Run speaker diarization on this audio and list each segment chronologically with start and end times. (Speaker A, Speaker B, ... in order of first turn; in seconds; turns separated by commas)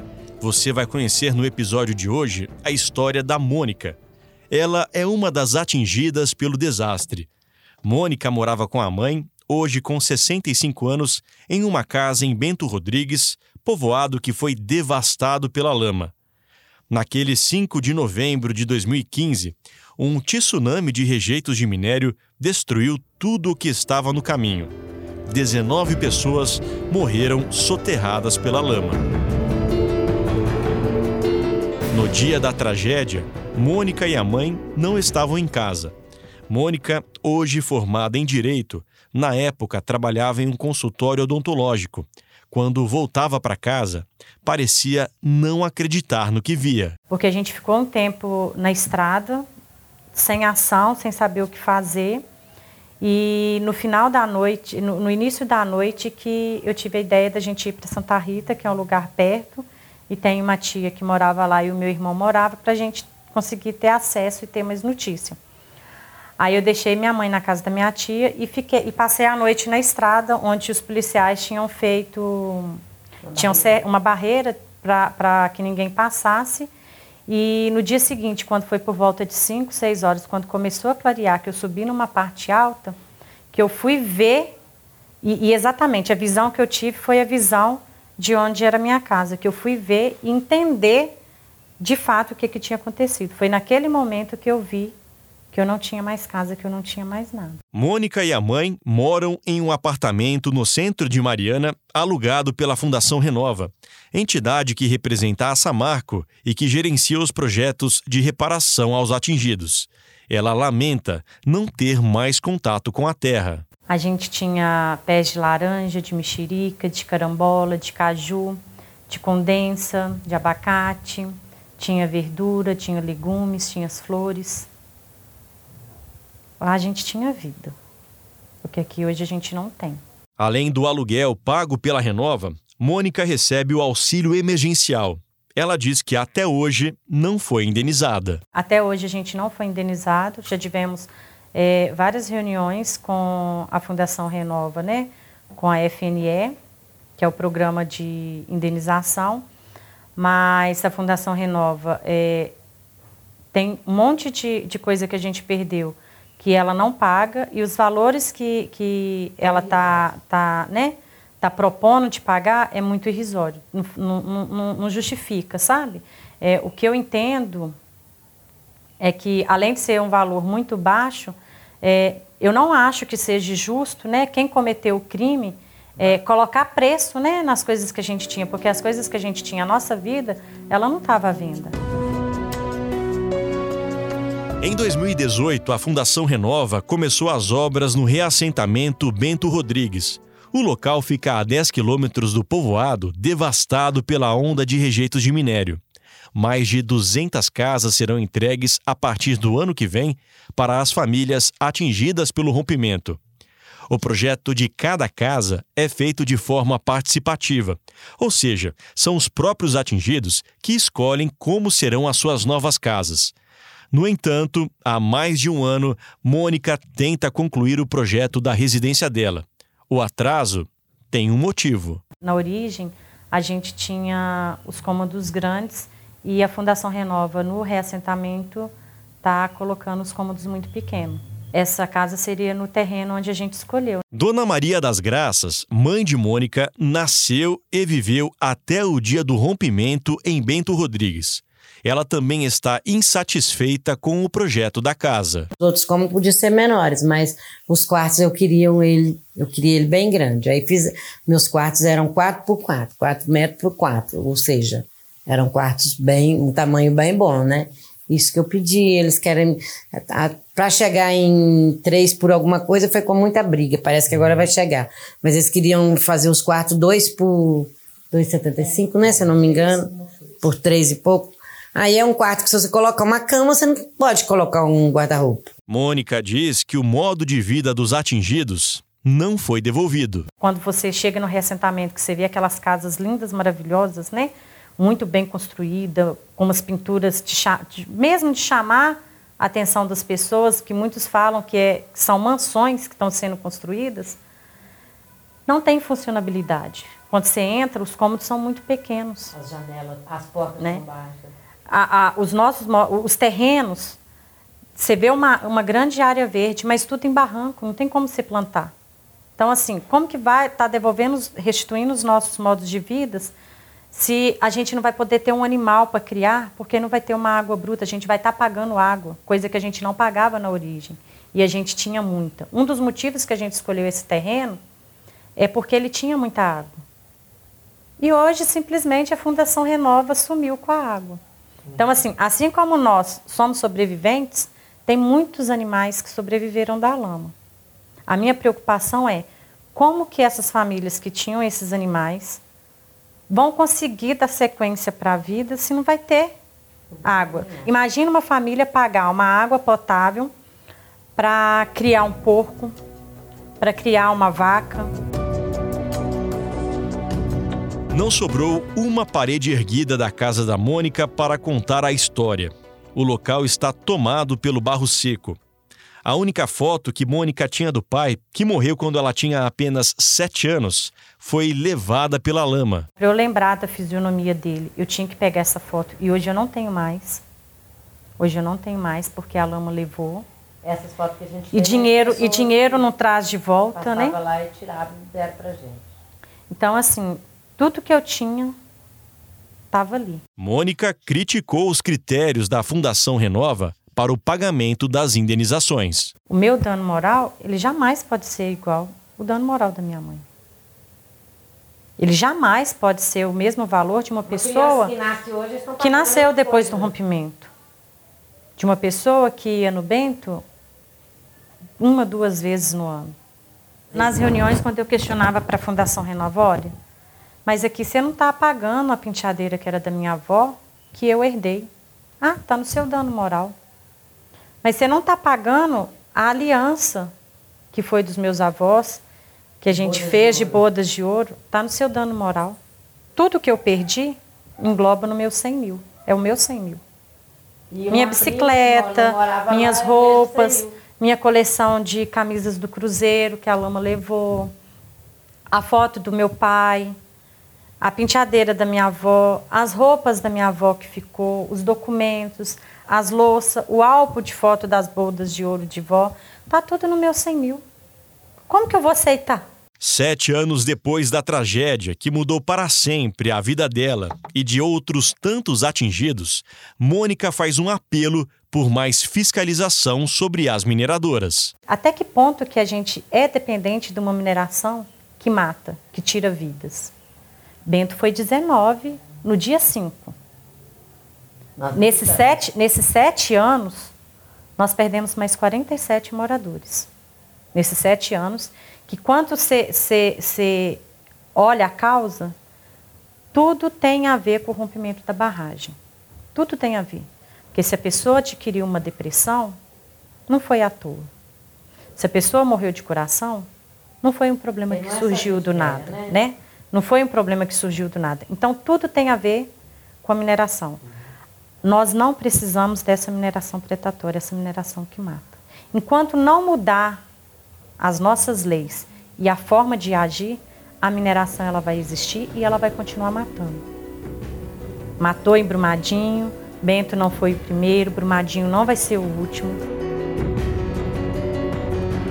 Speaker A: 0.4-4.0, Speaker A: 4.5-7.3, Speaker A: 7.8-16.1, Speaker A: 16.9-24.7, Speaker A: 25.3-29.0, Speaker A: 31.9-35.9, Speaker A: 36.5-47.0, Speaker B: 47.1-49.5, Speaker B: 50.1-52.2, Speaker B: 53.0-65.4, Speaker B: 66.4-72.8, Speaker C: 73.3-73.7, Speaker B: 73.3-76.7, Speaker B: 77.3-83.0, Speaker B: 83.5-84.5, Speaker B: 85.2-91.1, Speaker B: 91.8-95.0, Speaker B: 95.5-97.6, Speaker A: 97.7-113.6, Speaker B: 113.9-124.7, Speaker B: 126.6-127.8, Speaker B: 128.6-130.0, Speaker A: 130.4-138.4, Speaker B: 138.5-146.5, Speaker B: 147.2-149.4, Speaker B: 150.2-152.5, Speaker B: 153.5-167.7, Speaker B: 169.0-181.8, Speaker A: 184.6-195.8, Speaker A: 196.3-203.2, Speaker A: 203.9-213.3, Speaker A: 213.9-222.0, Speaker B: 222.2-228.7, Speaker B: 229.2-234.0, Speaker A: 234.1-245.5, Speaker C: 245.6-275.5, Speaker A: 275.7-280.3, Speaker B: 280.4-294.2, Speaker B: 295.5-299.3, Speaker C: 299.3-301.2, Speaker B: 300.6-300.8, Speaker B: 301.7-304.0, Speaker B: 304.8-308.7, Speaker B: 309.4-313.3, Speaker B: 313.9-324.6, Speaker B: 325.4-326.8, Speaker B: 328.0-331.2, Speaker B: 331.7-337.3, Speaker B: 338.1-342.4, Speaker B: 343.3-346.3, Speaker B: 347.0-350.3, Speaker C: 347.1-347.7, Speaker B: 351.2-352.8, Speaker B: 353.6-354.9, Speaker A: 357.9-365.4, Speaker A: 366.1-372.9, Speaker B: 373.0-377.2, Speaker B: 378.2-380.3, Speaker C: 380.6-382.8, Speaker B: 381.5-384.2, Speaker C: 383.8-385.8, Speaker B: 386.5-388.6, Speaker B: 389.7-390.2, Speaker A: 390.4-396.1, Speaker B: 396.3-400.2, Speaker B: 402.0-404.9, Speaker C: 404.3-406.9, Speaker B: 405.8-407.5, Speaker B: 408.6-410.4, Speaker B: 411.8-413.1, Speaker B: 413.9-416.7, Speaker B: 417.4-421.7, Speaker B: 422.2-423.6, Speaker B: 424.6-427.1, Speaker B: 427.7-429.0, Speaker B: 429.6-432.6, Speaker C: 429.7-430.6, Speaker B: 433.1-436.8, Speaker C: 437.7-440.7, Speaker B: 437.9-444.5, Speaker B: 445.5-446.9, Speaker B: 447.8-457.6, Speaker B: 458.5-459.4, Speaker A: 459.8-471.5, Speaker B: 471.7-476.9, Speaker B: 477.7-480.1, Speaker C: 481.6-482.2, Speaker B: 481.7-483.9, Speaker B: 484.6-486.9, Speaker B: 487.5-490.8, Speaker B: 491.4-492.3, Speaker B: 493.3-495.8, Speaker B: 496.3-499.6, Speaker B: 500.3-501.1, Speaker B: 502.0-503.5, Speaker B: 504.0-509.5, Speaker C: 504.7-506.1, Speaker B: 510.0-510.8, Speaker B: 511.6-517.0, Speaker B: 517.8-523.6, Speaker B: 525.0-529.6